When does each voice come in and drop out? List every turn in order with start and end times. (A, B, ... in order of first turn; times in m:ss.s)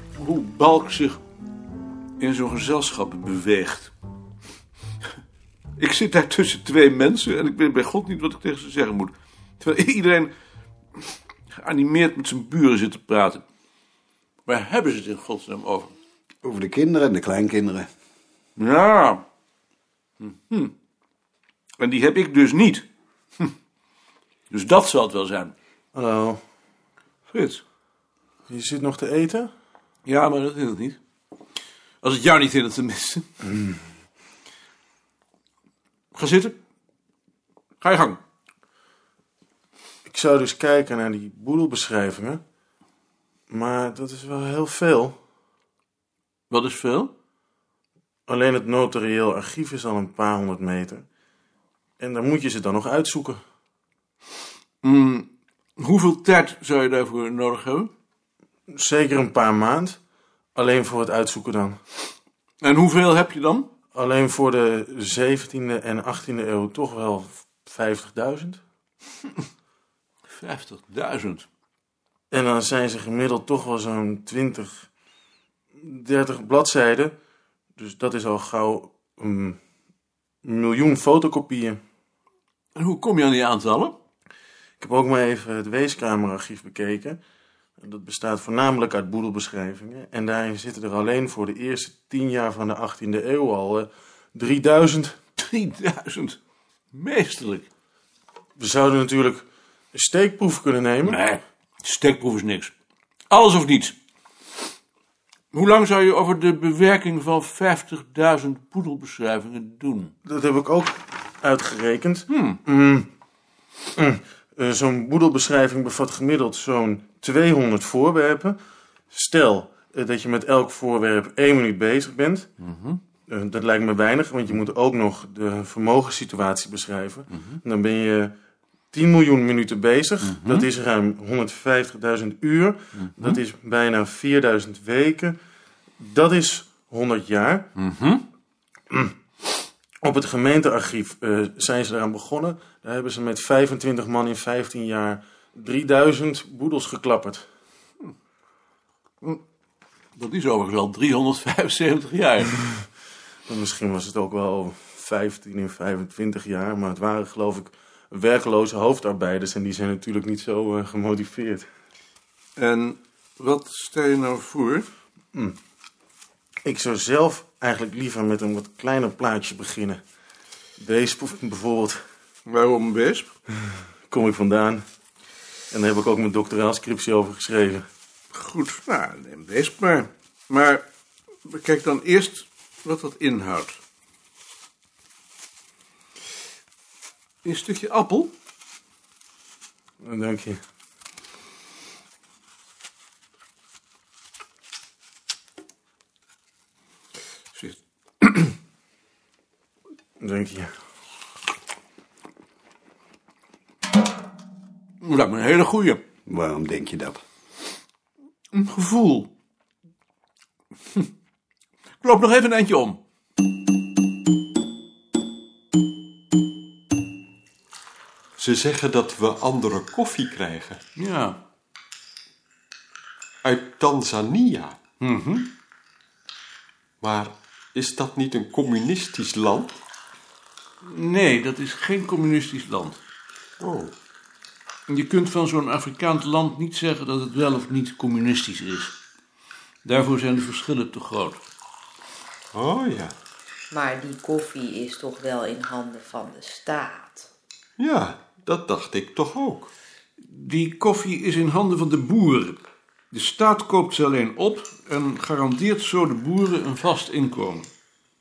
0:00.2-0:01.2 A
0:02.2-0:03.9 A
0:05.8-0:10.3 A
0:11.5-0:13.4 A
0:14.5-0:15.9 A
0:16.4-0:17.9 B
0:18.6-0:19.2 A
0:20.2-0:20.7 A
0:21.8-0:22.9 A
0:24.5-0:25.5 A
0:25.9-0:26.4 C
0:27.2-0:27.6 A
0:28.5-0:29.5 C
0:30.0-0:31.0 A
0:32.0-0:33.3 A
0:36.1-0:36.6 A
0:37.8-0:38.2 A
0:40.0-0:42.4 C
0:43.5-0:45.2 C
0:46.5-0:47.1 A
0:48.3-0:51.0 C
0:52.0-0:53.4 C
0:54.8-0:57.9 A
0:58.7-1:00.0 C
1:00.6-1:01.8 C
1:02.6-1:03.7 A
1:03.9-1:08.6 C
1:10.3-1:11.5 A
1:12.3-1:14.9 C
1:15.8-1:17.1 C
1:17.8-1:19.6 C
1:20.4-1:21.8 C
1:22.7-1:23.9 A
1:24.8-1:27.2 C
1:27.8-1:35.2 C
1:35.4-1:36.4 A
1:36.9-1:37.7 A
1:38.6-1:41.2 C
1:41.0-1:42.7 A
1:43.3-1:44.0 A
1:45.5-1:50.1 A
1:50.2-1:53.1 C
1:52.3-1:52.6 A
1:54.0-1:58.6 C
1:59.1-2:02.5 C
2:02.6-2:03.0 A
2:03.3-2:08.3 C
2:08.9-2:15.4 C
2:10.3-2:10.7 A
2:13.0-2:13.4 A
2:16.0-2:17.7 C
2:17.8-2:18.2 A
2:20.0-2:27.5 C
2:30.2-2:32.7 A
2:33.5-2:41.7 C
2:42.6-2:44.9 A
2:46.6-2:50.0 C
2:50.8-2:52.0 C
2:52.5-2:53.3 A
2:54.1-2:54.8 C
2:55.7-2:57.8 C
2:58.3-3:00.8 A
3:01.4-3:03.8 A
3:07.4-3:08.3 A
3:10.0-3:10.6 C
3:17.5-3:18.5 A
3:20.2-3:20.7 C
3:25.0-3:26.0 A
3:26.3-3:27.2 B
3:28.5-3:29.3 A
3:32.0-3:33.0 A
3:38.4-3:40.8 D
3:41.0-3:41.4 A
3:43.4-3:44.8 D
3:45.0-3:45.5 A
3:47.0-3:49.8 D
3:50.8-3:53.0 A
3:53.6-3:53.9 D
3:54.9-3:59.0 A
3:59.8-4:01.4 A
4:02.5-4:03.1 D
4:03.7-4:07.2 E
4:07.8-4:09.7 D
4:10.2-4:17.7 A